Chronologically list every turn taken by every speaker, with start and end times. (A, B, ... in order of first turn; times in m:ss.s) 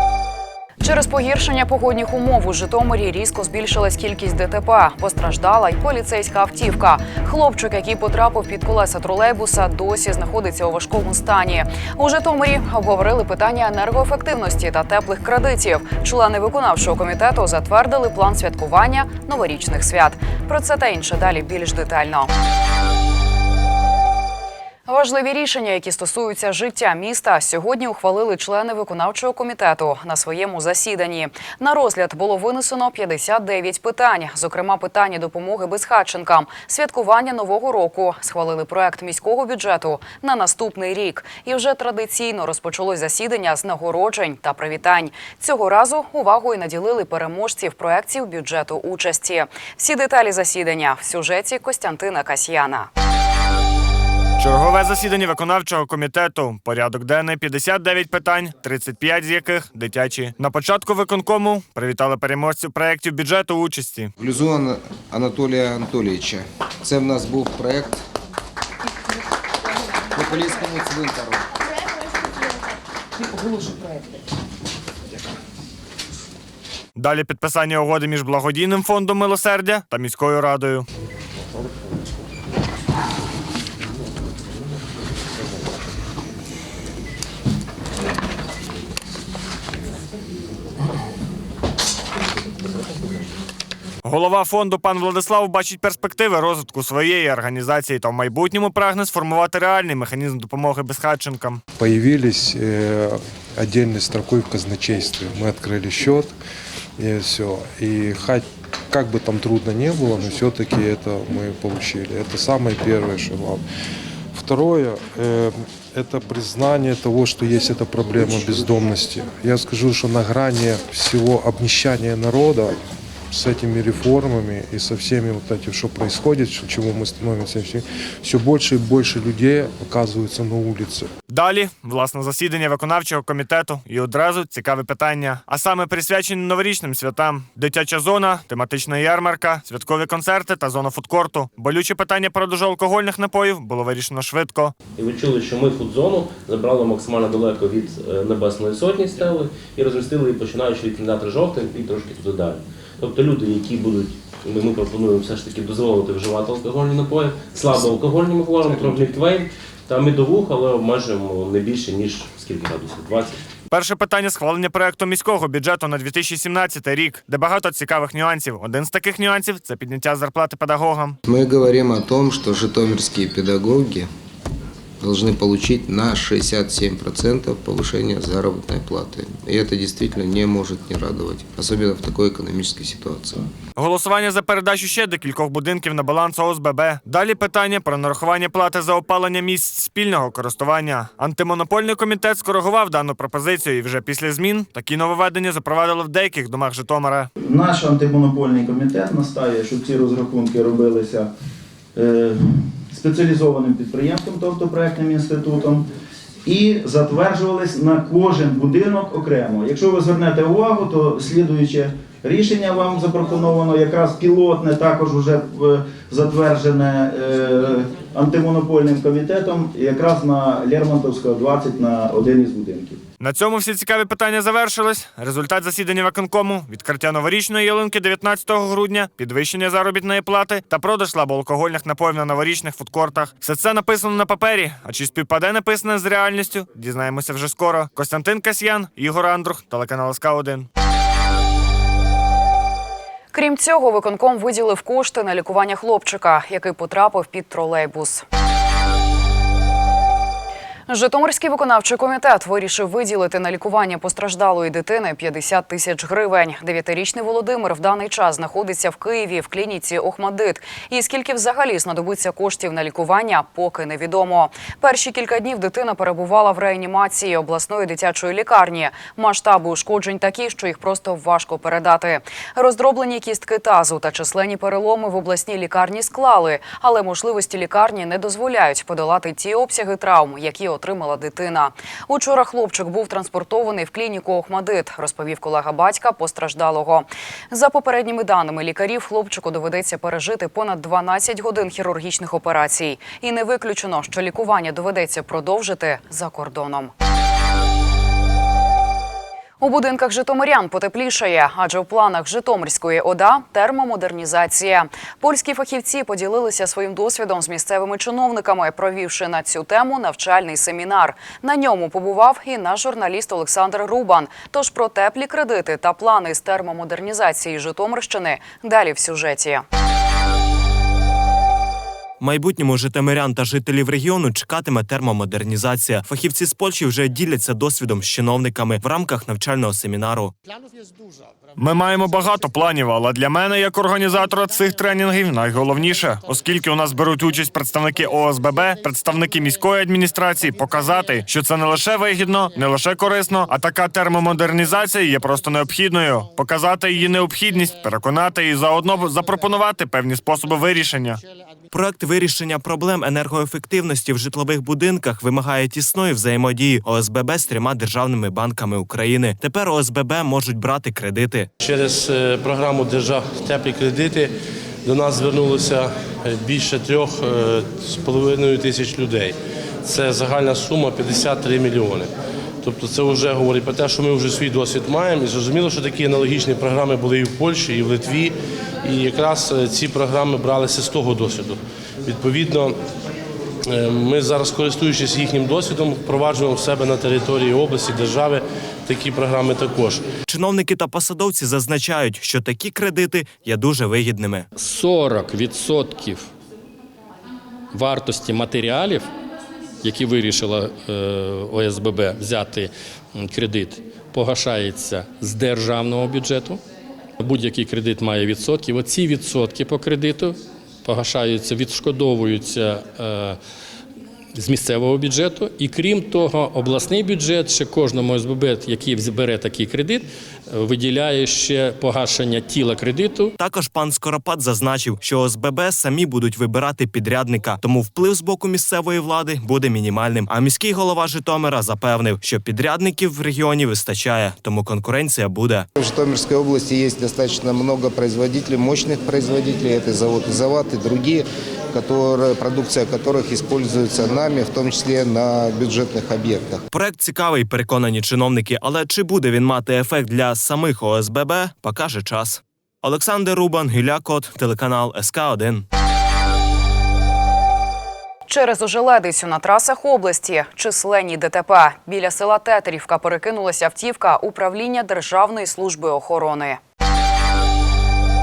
0:00.8-0:22.3 A
0:24.8-0:52.9 A
0:54.4-1:04.1 B
1:04.2-1:08.0 C
1:10.1-1:11.4 C
1:17.0-1:20.9 B
1:34.0-1:41.6 B
1:41.8-1:46.3 D
1:47.0-1:53.6 D
1:54.3-2:02.7 D
2:03.3-2:11.1 D
2:11.3-2:24.7 B
2:25.0-2:43.4 E
2:43.7-2:51.2 B
2:51.3-2:54.1 C
2:55.0-3:03.4 C
3:03.8-3:17.3 B
3:17.5-3:21.3 F
3:21.9-3:25.8 F
3:26.5-3:43.0 F
3:43.2-4:00.7 B
4:03.3-4:08.2 A
4:10.9-4:56.9 A
4:59.6-5:19.6 A
5:22.2-5:30.3 G
5:31.6-5:51.2 B
5:51.7-6:01.5 G
6:01.6-6:04.3 H
6:04.8-6:12.1 H
6:12.6-6:22.8 H
6:23.7-6:30.0 H
6:30.2-6:34.4 G
6:34.6-6:36.3 I
6:37.7-6:39.1 I
6:39.8-6:46.6 I
6:47.2-6:53.4 I
6:54.4-7:03.4 I
7:03.4-7:15.7 G
7:15.8-7:26.6 C
7:26.7-7:35.6 G
7:38.3-7:46.6 A